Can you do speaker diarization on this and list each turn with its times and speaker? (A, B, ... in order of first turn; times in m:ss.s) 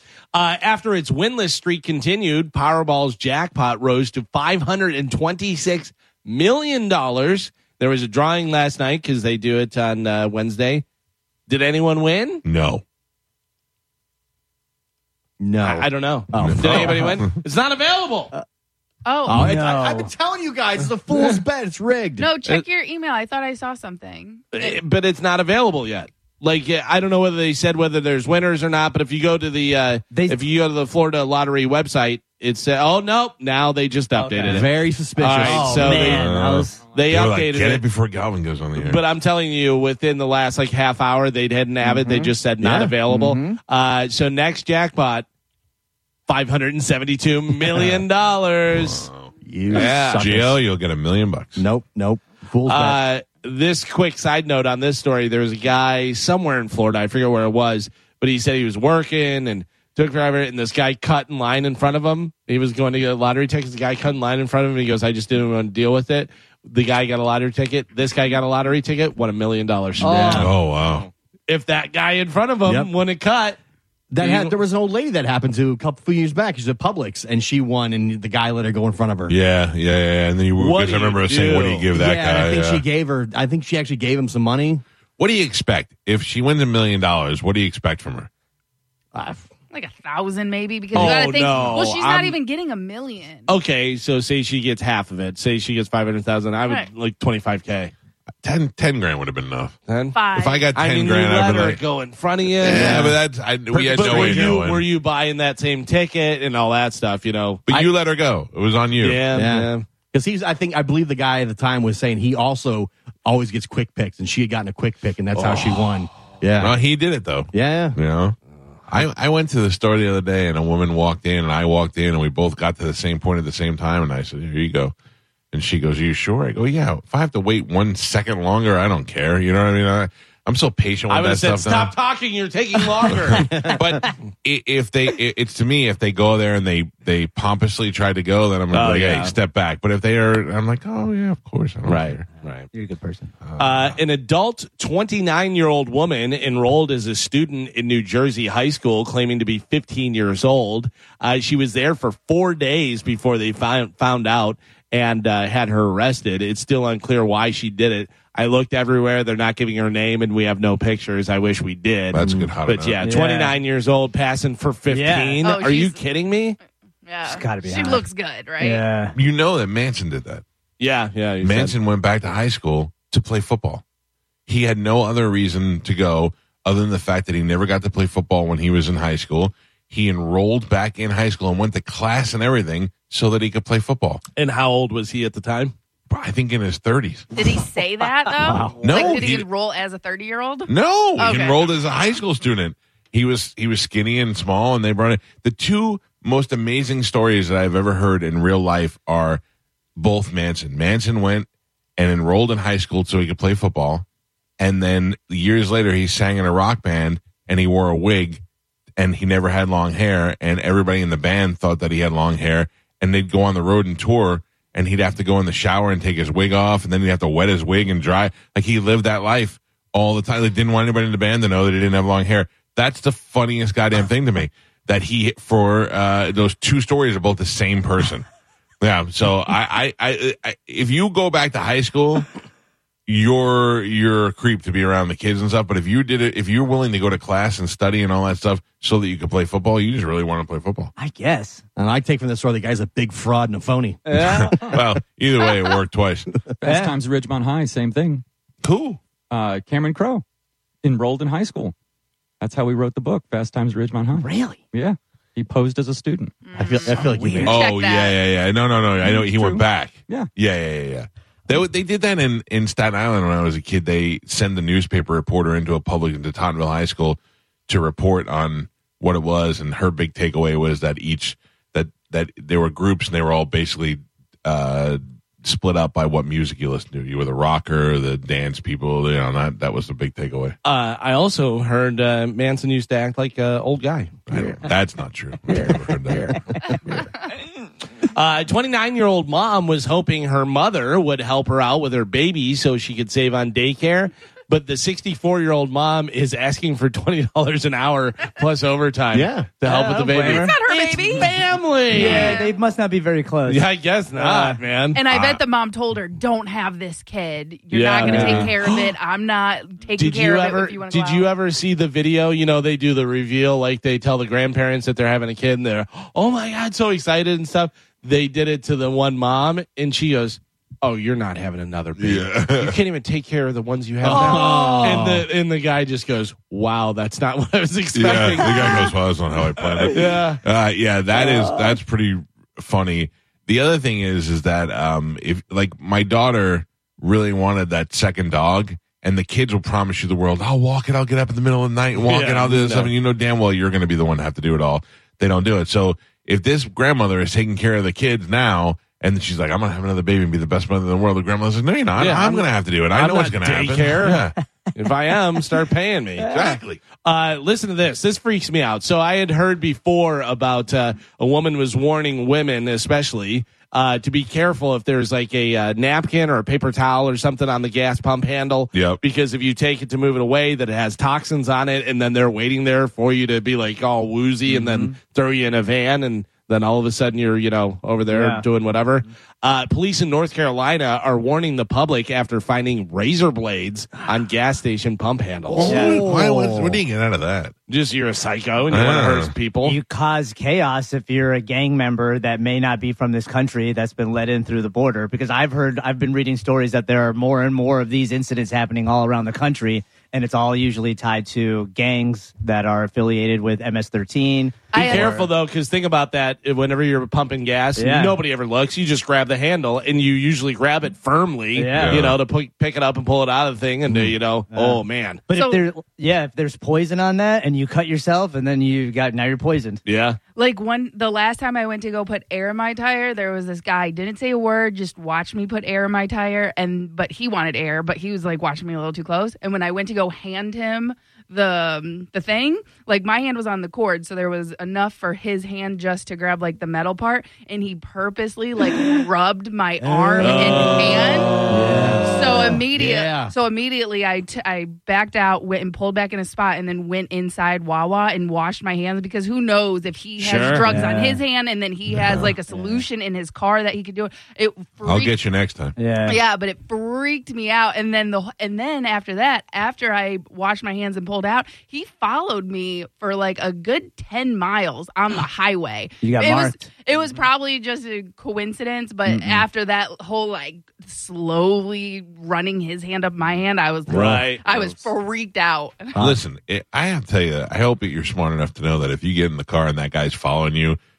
0:00.3-0:10.8 A
0:11.5-0:12.4 A
0:12.4-0:12.8 B
0:15.4-0:17.2 C
0:15.6-0:18.3 A
0:16.4-0:17.3 B
0:19.0-0:19.5 D
0:19.2-0:22.3 C
0:19.3-0:20.1 E
0:22.2-0:24.8 D
0:24.5-0:36.3 A
0:30.1-0:30.4 E
0:34.2-0:34.6 E
0:34.4-0:36.2 C
0:35.4-0:36.8 E
0:35.9-0:39.0 B
0:36.9-0:37.8 A
0:38.8-0:45.2 A
0:41.8-0:42.3 E
0:42.6-0:43.0 C
0:43.1-0:43.6 E
0:46.3-0:49.1 A
0:48.7-0:51.6 B
0:49.4-0:50.6 C
0:49.7-0:50.2 A
0:51.6-0:53.0 C
0:52.6-1:10.5 A
1:10.0-1:10.5 E
1:10.1-1:10.4 C
1:10.3-1:11.1 B
1:11.5-1:13.6 A
1:12.6-1:12.9 C
1:14.1-1:19.4 C
1:14.2-1:14.6 A
1:19.3-1:22.8 B
1:20.6-1:21.9 A
1:21.9-1:24.8 C
1:25.2-1:28.3 B
1:29.1-1:29.5 C
1:29.7-1:33.5 D
1:30.9-1:32.4 A
1:33.5-1:37.9 A
1:38.4-1:39.8 B
1:39.9-1:40.2 A
1:40.1-1:40.7 D
1:40.3-1:41.8 B
1:40.7-1:43.1 A
1:42.5-1:44.8 B
1:42.7-1:43.1 C
1:43.7-1:47.8 A
1:43.9-1:44.6 C
1:47.7-1:49.3 B
1:49.0-1:49.8 A
1:49.3-1:56.8 C
1:55.3-1:55.8 A
1:56.6-1:58.4 B
1:57.5-1:58.0 C
1:58.9-2:04.9 B
2:05.5-2:11.9 B
2:11.1-2:13.6 A
2:13.1-2:22.2 B
2:13.4-2:13.8 C
2:18.7-2:19.3 A
2:21.8-2:22.7 A
2:22.7-2:23.3 E
2:23.4-2:24.0 B
2:23.6-2:46.6 A
2:42.1-2:43.0 B
2:42.2-2:42.5 C
2:43.0-2:43.6 E
2:44.9-2:45.4 E
2:45.4-2:46.0 D
2:47.0-2:48.8 D
2:47.2-2:48.0 E
2:48.6-2:49.1 E
2:49.1-2:50.4 B
2:50.8-2:51.7 A
2:51.4-2:53.8 B
2:54.5-3:04.2 B
3:04.4-3:05.7 A
3:06.1-3:07.3 B
3:07.3-3:11.6 D
3:08.4-3:08.9 E
3:08.8-3:09.4 B
3:10.7-3:19.4 B
3:20.0-3:24.0 B
3:24.6-3:28.4 B
3:29.0-3:48.2 B
3:48.8-3:52.3 B
3:53.1-4:00.9 B
4:01.0-4:01.6 E
4:01.8-4:04.0 C
4:04.0-4:04.8 E
4:04.1-4:06.3 B
4:06.6-4:08.2 F
4:06.6-4:06.9 E
4:08.6-4:09.0 B
4:09.3-4:10.2 F
4:10.8-4:11.7 F
4:12.4-4:17.4 F
4:14.2-4:14.6 E
4:16.4-4:18.2 D
4:16.6-4:17.6 C
4:17.2-4:17.4 E
4:17.4-4:40.6 B
4:19.0-4:20.3 F
4:40.6-4:44.6 A
4:44.3-4:46.4 B
4:45.5-4:46.4 A
4:48.1-5:02.4 A
4:59.1-4:59.5 C
4:59.6-5:01.3 E
5:00.2-5:01.3 D
5:01.9-5:04.6 E
5:01.9-5:02.5 D
5:03.5-5:05.3 A
5:04.9-5:11.3 D
5:05.1-5:05.4 B
5:07.7-5:08.9 A
5:08.0-5:08.5 E
5:10.0-5:28.8 A
5:22.0-5:22.8 B
5:24.0-5:25.2 C
5:24.0-5:25.0 E
5:27.9-5:54.3 B
5:29.9-5:30.4 A
5:31.2-5:31.7 E
5:42.0-5:42.9 A
5:52.0-6:25.7 A
5:56.2-5:56.8 B
6:08.7-6:09.0 B
6:14.5-6:14.9 E
6:18.1-6:18.4 E
6:25.5-6:27.5 B
6:25.6-6:26.8 C
6:25.7-6:26.1 E
6:27.7-6:29.8 A
6:28.7-6:29.3 B
6:29.6-6:45.3 E
6:44.7-6:45.1 D
6:44.7-6:55.2 A
6:47.8-6:48.2 E
6:51.5-6:52.0 E
6:51.7-6:52.2 B
6:53.9-6:59.8 E
6:55.3-6:55.6 D
6:59.8-7:00.2 A
7:00.4-7:21.4 D
7:19.9-7:20.8 C
7:20.2-7:21.8 A
7:21.4-7:22.6 E
7:21.5-7:23.3 C
7:22.0-7:35.2 D
7:30.2-7:30.7 A
7:30.6-7:31.2 E
7:31.9-7:32.3 B
7:32.5-7:32.8 E
7:34.8-7:35.7 B
7:35.8-7:36.2 E
7:36.0-7:56.0 D
7:46.0-7:46.7 E
7:49.1-7:49.4 E
7:53.9-7:54.6 A
7:53.9-7:54.2 E
7:56.0-8:00.8 B